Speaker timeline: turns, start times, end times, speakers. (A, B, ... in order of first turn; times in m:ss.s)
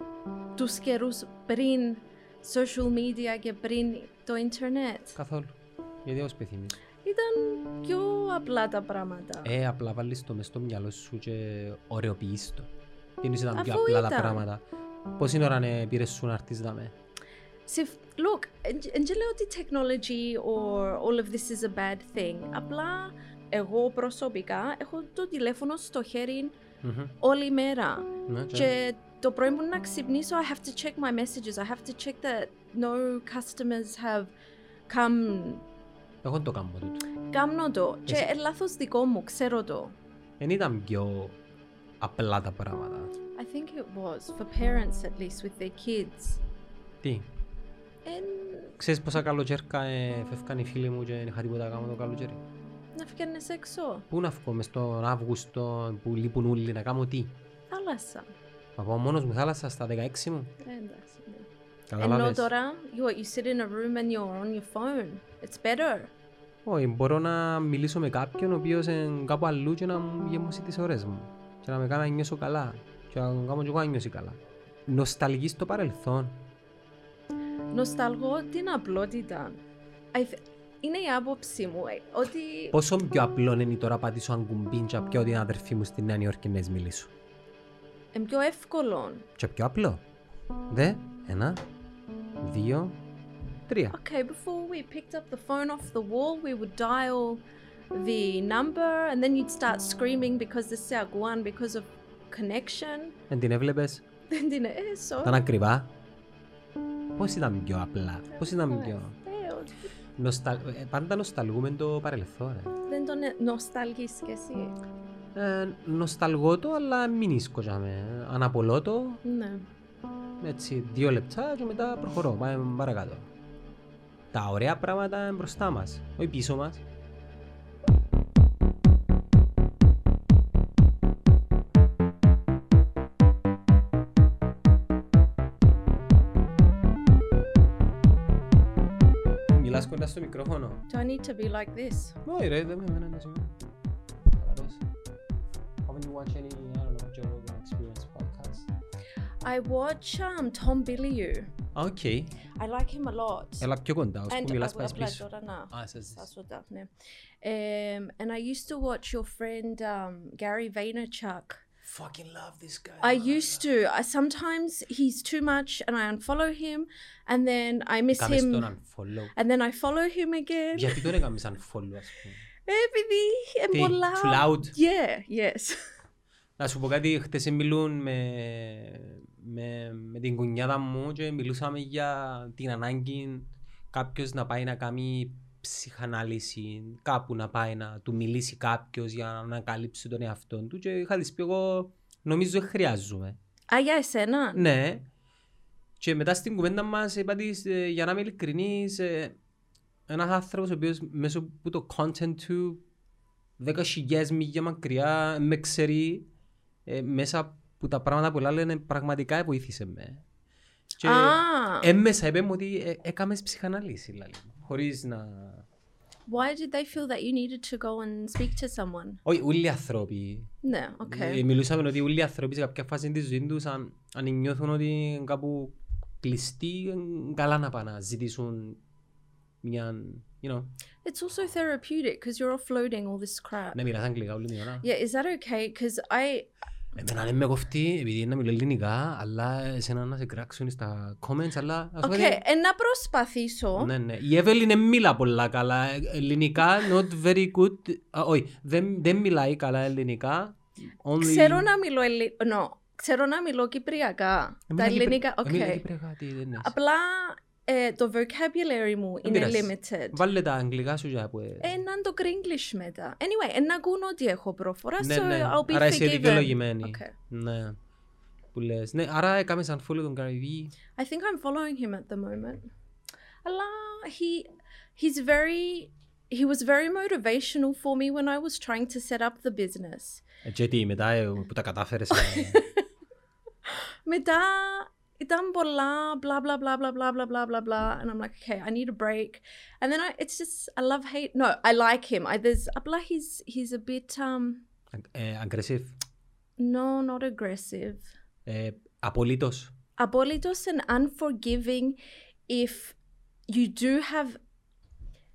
0:00.6-0:05.2 A
0:05.2-0:06.8 B
0:07.0-0:09.5 A
0:09.4-0:12.7 B
0:13.2-0:14.6 B
0:13.5-0:14.4 A
0:15.2-0:16.9 B
0:17.7-0:26.5 A
0:26.8-0:27.2 B
0:27.2-0:34.3 A
0:28.3-0:28.7 B
0:34.9-0:35.6 A
0:36.2-0:37.0 B
0:37.3-0:40.0 A
0:40.4-0:41.4 B
0:42.0-0:43.1 B
0:43.4-0:46.4 A
0:47.0-0:47.3 B
0:48.0-0:48.8 A
0:48.8-0:52.4 B
0:53.0-0:54.0 A
0:54.1-0:57.3 B
0:57.7-0:58.3 A
0:58.8-1:00.5 B
1:00.6-1:06.1 A
1:01.9-1:02.5 B
1:06.6-1:16.4 B
1:17.7-1:19.6 A
1:20.1-1:22.8 A
1:22.7-1:27.1 B
1:28.1-1:29.3 A
1:29.4-1:30.0 B
1:30.7-1:31.6 B
1:32.4-1:33.0 B
1:33.7-1:34.0 B
1:33.9-1:43.2 A
1:43.3-1:44.0 B
1:44.3-1:45.4 A
1:45.2-1:45.9 B
1:47.2-1:49.2 B
1:48.3-1:49.9 A
1:50.2-1:52.8 B
1:52.9-1:54.8 A
1:55.3-1:59.2 B
1:59.2-1:59.7 A
2:00.4-2:03.3 B
2:04.3-2:06.8 B
2:19.5-2:20.8 B
2:20.9-2:22.2 A
2:22.2-2:23.5 B
2:24.3-2:24.8 B
2:25.8-2:28.7 B
2:29.4-2:31.5 A
2:31.7-2:32.4 B
2:32.5-2:33.7 A
2:33.6-2:36.3 B
2:34.3-2:36.9 A
2:37.4-2:41.6 A
2:41.8-2:43.6 B
2:43.0-2:48.7 A
2:48.1-2:49.3 B
2:49.3-2:51.2 A
2:50.7-2:52.4 B
2:52.6-2:55.8 A
2:53.7-2:54.8 B
2:56.6-3:13.4 B
3:13.7-3:14.6 A
3:14.5-3:15.1 B
3:16.0-3:19.4 B
3:20.1-3:22.8 B
3:23.6-3:26.3 B
3:26.8-3:30.2 B
3:31.0-3:35.6 B
3:31.0-3:31.9 A
3:36.3-3:39.2 A
3:39.2-3:48.8 B
3:40.6-3:41.4 A
3:49.6-3:50.7 B
3:51.0-3:53.8 A
3:53.7-3:54.8 B
3:54.8-3:56.5 A
3:56.9-4:02.4 B
4:02.0-4:03.9 A
4:03.8-4:11.7 B
4:11.2-4:15.8 A
4:14.7-4:16.7 B
4:16.6-4:20.2 A
4:19.2-4:21.8 B
4:21.6-4:27.1 A
4:25.0-4:27.8 B
4:28.5-4:30.8 B
4:31.0-4:32.7 A
4:33.4-4:40.2 A
4:40.4-4:42.6 B
4:42.1-4:42.8 A
4:43.6-4:54.6 A
4:54.9-4:55.9 B
4:56.6-4:58.1 A
4:58.4-4:59.7 B
5:00.0-5:02.0 A
5:02.5-5:03.0 A
5:03.5-5:04.4 A